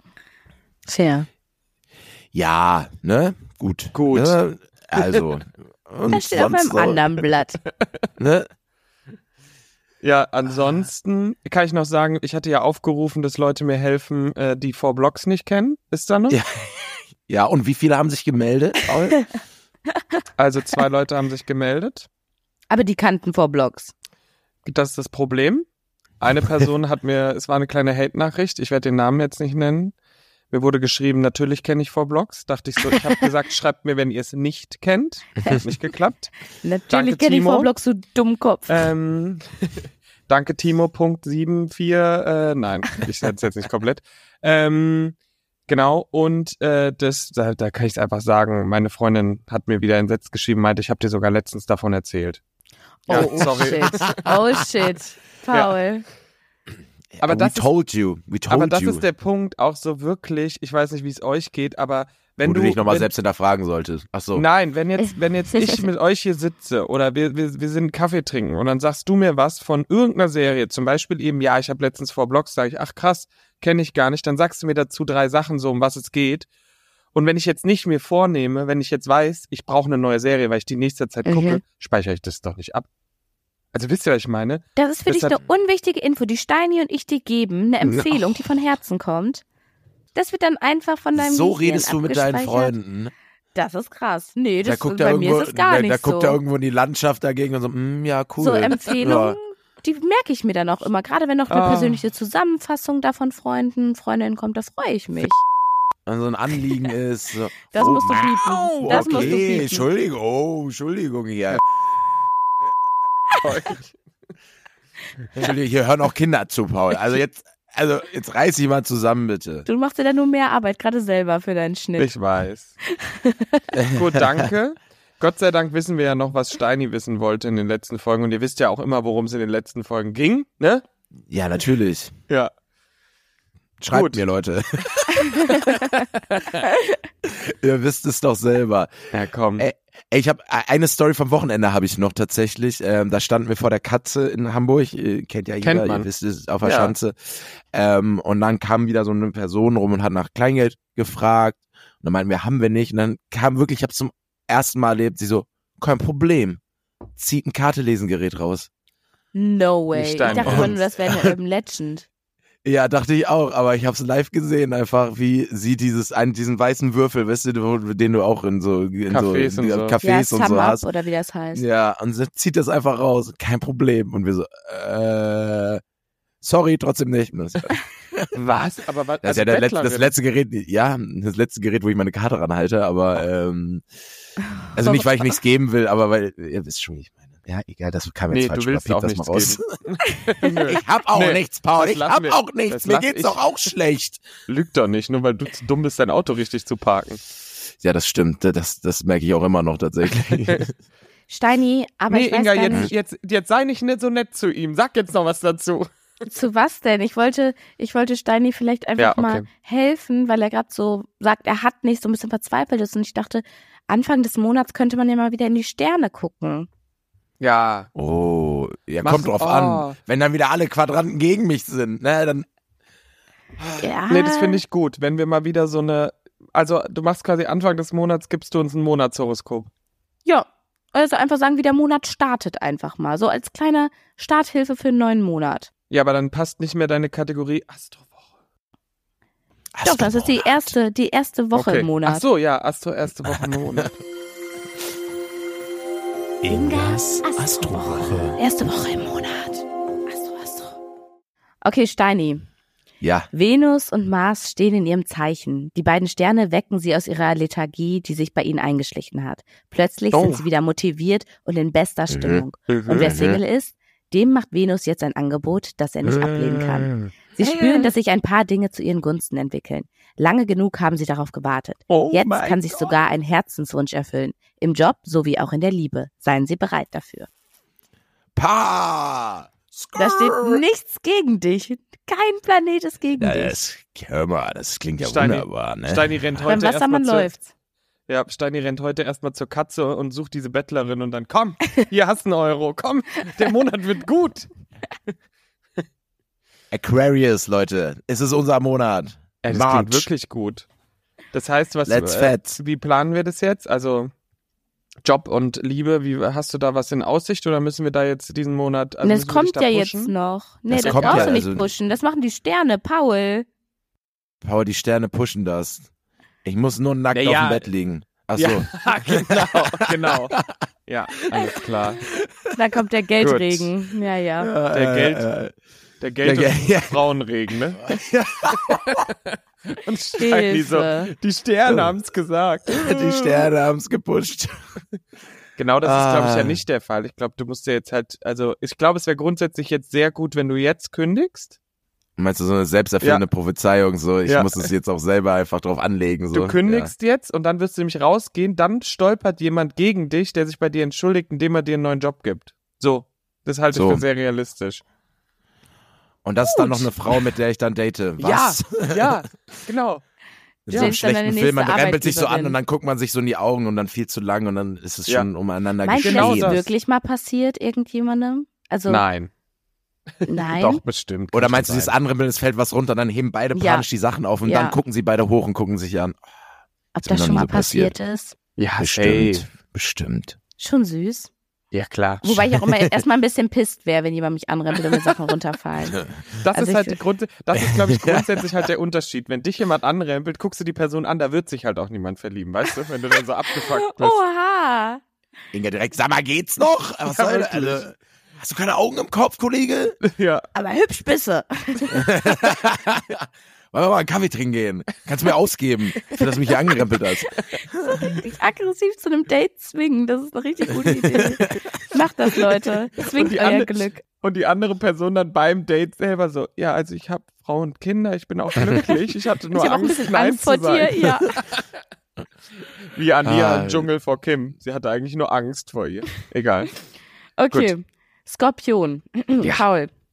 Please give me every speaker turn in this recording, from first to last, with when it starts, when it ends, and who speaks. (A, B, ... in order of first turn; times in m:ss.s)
0:00.9-0:01.3 A
0:02.3-0:07.2 B
0:03.9-0:04.4 C
0:06.1-0:07.6 A
0:08.2-0:08.5 B
0:10.0-0:16.4 C
0:16.3-0:19.2 B
0:20.4-0:22.1 C
0:22.7-0:23.9 A
0:24.6-0:25.6 C
0:26.2-0:29.9 C
0:30.5-0:36.3 C
0:36.6-0:38.7 A
0:36.9-0:37.7 C
0:38.7-0:45.1 C
0:45.7-0:52.4 C
0:53.1-0:56.0 A
0:53.1-0:54.2 C
0:53.1-0:54.3 B
0:57.1-0:59.0 B
0:57.2-0:57.7 C
0:58.5-1:03.1 C
1:02.4-1:04.4 B
1:04.3-1:16.5 C
1:17.1-1:22.8 C
1:21.2-1:21.6 A
1:23.7-1:25.4 C
1:24.8-1:29.4 A
1:27.8-1:28.4 B
1:30.1-1:32.8 A
1:31.1-1:33.1 B
1:33.5-1:36.4 A
1:34.6-1:39.4 B
1:38.4-1:45.4 A
1:41.5-1:42.0 C
1:46.0-1:51.6 B
1:47.7-1:49.8 A
1:48.8-1:49.4 C
1:53.4-1:53.9 C
1:55.4-1:59.7 B
1:59.6-2:02.1 A
2:02.0-2:02.7 C
2:02.8-2:03.7 A
2:03.7-2:04.5 B
2:03.9-2:10.8 C
2:11.3-2:12.1 B
2:13.8-2:15.8 B
2:13.9-2:14.2 C
2:15.4-2:16.6 C
2:17.2-2:36.6 B
2:19.1-2:19.7 C
2:25.6-2:26.1 C
2:26.6-2:26.9 C
2:37.2-2:38.7 B
2:39.3-2:42.0 A
2:39.9-2:40.8 C
2:40.4-2:41.3 B
2:42.6-2:50.8 B
2:49.1-2:50.0 C
2:50.0-2:51.6 A
2:51.5-2:55.8 B
2:56.4-2:58.3 B
2:58.3-3:00.1 C
2:59.2-3:03.8 B
3:04.7-3:09.8 B
3:08.3-3:13.4 C
3:10.7-3:14.2 B
3:14.5-3:17.2 C
3:17.8-3:20.7 B
3:21.3-3:22.9 A
3:22.1-3:25.9 C
3:26.3-3:36.7 A
3:29.0-3:29.4 C
3:37.4-3:37.9 C
3:37.9-3:42.4 B
3:39.0-3:40.0 C
3:43.8-3:44.6 A
3:44.1-3:49.7 C
3:50.2-3:55.7 A
3:55.9-3:58.2 C
3:59.7-4:00.7 B
3:59.8-4:02.2 A
4:01.5-4:04.0 C
4:03.2-4:03.9 B
4:06.4-4:08.4 B
4:06.5-4:10.8 A
4:11.6-4:12.4 A
4:13.0-4:13.3 B
4:13.3-4:37.3 A
4:20.1-4:20.4 C
4:22.1-4:23.4 B
4:22.7-4:23.1 C
4:26.1-4:26.9 B
4:27.4-4:27.8 C
4:31.9-4:32.5 C
4:31.9-4:33.0 B
4:38.4-4:40.6 B
4:39.9-4:43.6 A
4:43.2-4:46.4 B
4:45.0-4:47.3 C
4:46.5-4:47.5 A
4:48.1-4:54.5 C
4:56.7-5:00.1 B
4:59.4-5:00.6 C
5:01.3-5:04.1 C
5:01.9-5:02.6 B
5:05.0-5:10.1 C
5:09.0-5:13.5 A
5:10.7-5:11.7 B
5:10.8-5:11.4 C
5:14.4-5:15.9 B
5:16.4-5:20.6 B
5:17.1-5:17.6 C
5:18.4-5:22.0 C
5:21.2-5:22.5 B
5:22.5-5:24.5 A
5:23.2-5:23.7 C
5:24.4-5:25.5 B
5:24.7-5:25.3 C
5:26.0-5:33.5 C
5:26.2-5:27.0 B
5:27.8-5:29.1 B
5:30.2-5:31.1 A
5:31.7-5:31.9 B
5:32.7-5:34.7 B
5:35.6-5:41.6 C
5:35.8-5:36.6 B
5:42.2-5:46.9 B
5:44.3-5:44.7 C
5:46.3-5:54.8 C
5:53.7-5:54.0 B
5:56.2-5:59.6 B
5:58.2-6:00.0 C
6:00.7-6:06.6 B
6:00.7-6:00.9 C
6:00.7-6:02.6 A
6:05.8-6:09.0 A
6:06.0-6:06.7 C
6:08.9-6:09.3 C
6:10.2-6:11.9 C
6:10.2-6:10.8 A
6:11.3-6:16.2 B
6:13.5-6:13.8 A
6:14.4-6:14.8 A
6:16.9-6:18.4 A
6:17.0-6:17.9 B
6:18.6-6:19.5 C
6:18.8-6:20.4 B
6:20.6-6:21.3 A
6:21.7-6:22.4 C
6:22.2-6:27.0 A
6:26.4-6:34.2 C
6:27.5-6:28.4 B
6:33.5-6:35.0 A
6:35.5-6:40.0 B
6:37.1-6:37.8 C
6:40.0-6:40.4 C
6:40.5-6:42.2 A
6:41.9-6:48.1 B
6:47.4-6:54.0 A
6:50.8-6:51.6 B
6:53.0-7:01.6 C
6:59.5-7:01.3 A
7:02.9-7:06.7 C
7:03.2-7:03.9 B
7:07.4-7:09.9 A